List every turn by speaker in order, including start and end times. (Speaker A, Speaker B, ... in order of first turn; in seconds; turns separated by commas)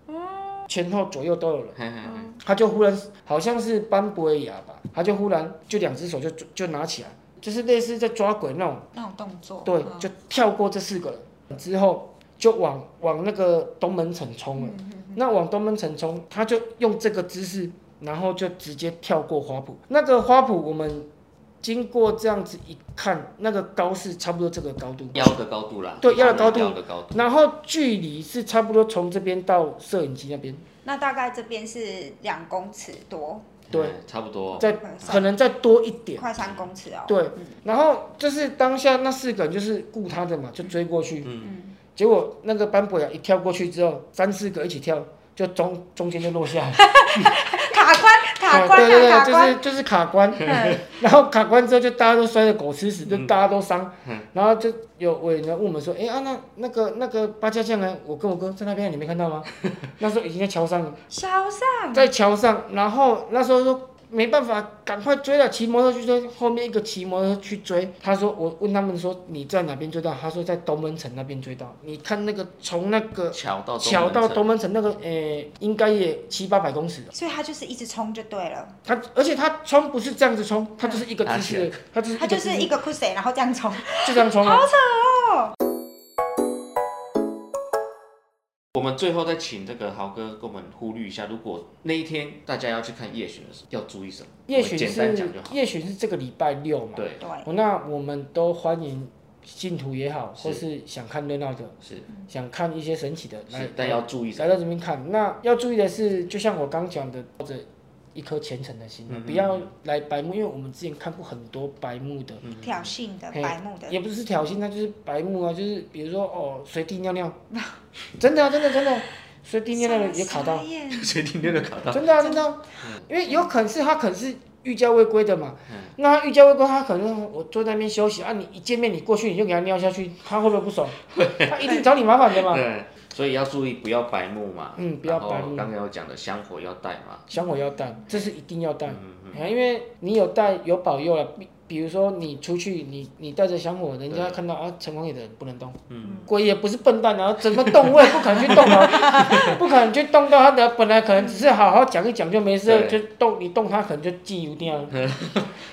Speaker A: 0.1-0.7, Speaker B: 0.7-1.8, Speaker C: 1.8-2.3, Speaker A: 2.0-2.4, Speaker B: 2.4-8.9, Speaker A: 8.9-10.1, Speaker B: 9.7-21.1, Speaker A: 14.6-15.2, Speaker B: 21.6-25.3, Speaker C: 25.1-27.3, Speaker B: 26.0-30.6, Speaker A: 30.8-33.6, Speaker C: 33.7-34.7, Speaker A: 34.6-35.3, Speaker B: 34.6-36.3, Speaker A: 36.2-37.6, Speaker C: 36.4-36.7, Speaker B: 37.1-41.3, Speaker C: 41.2-41.5, Speaker A: 41.4-41.8, Speaker B: 42.0-46.9, Speaker A: 46.8-49.6, Speaker B: 48.5-61.0, Speaker A: 50.5-50.8, Speaker A: 61.1-62.1, Speaker B: 61.9-77.1, Speaker C: 73.3-74.5, Speaker A: 77.1-78.8, Speaker B: 78.9-82.7, Speaker C: 81.2-81.8, Speaker A: 82.2-85.5, Speaker B: 84.0-84.7, Speaker C: 88.7-95.6, Speaker B: 94.5-101.8, Speaker C: 97.0-97.2, Speaker A: 97.2-97.5, Speaker B: 102.3-112.4, Speaker C: 103.5-104.5, Speaker C: 109.1-109.7, Speaker C: 112.4-112.9, Speaker A: 112.6-114.0, Speaker B: 113.3-117.4, Speaker A: 117.5-117.8, Speaker B: 118.2-120.7, Speaker A: 119.7-122.5, Speaker C: 120.9-122.1, Speaker B: 121.9-132.7, Speaker A: 123.3-123.5, Speaker C: 125.7-125.9, Speaker C: 131.1-131.7, Speaker C: 132.3-137.3, Speaker B: 134.8-135.7, Speaker A: 137.3-137.8, Speaker B: 137.3-155.0, Speaker C: 138.9-139.4, Speaker C: 144.1-144.4, Speaker C: 145.9-146.3, Speaker A: 146.0-146.3, Speaker C: 147.5-149.6, Speaker C: 152.7-153.0, Speaker C: 154.9-155.5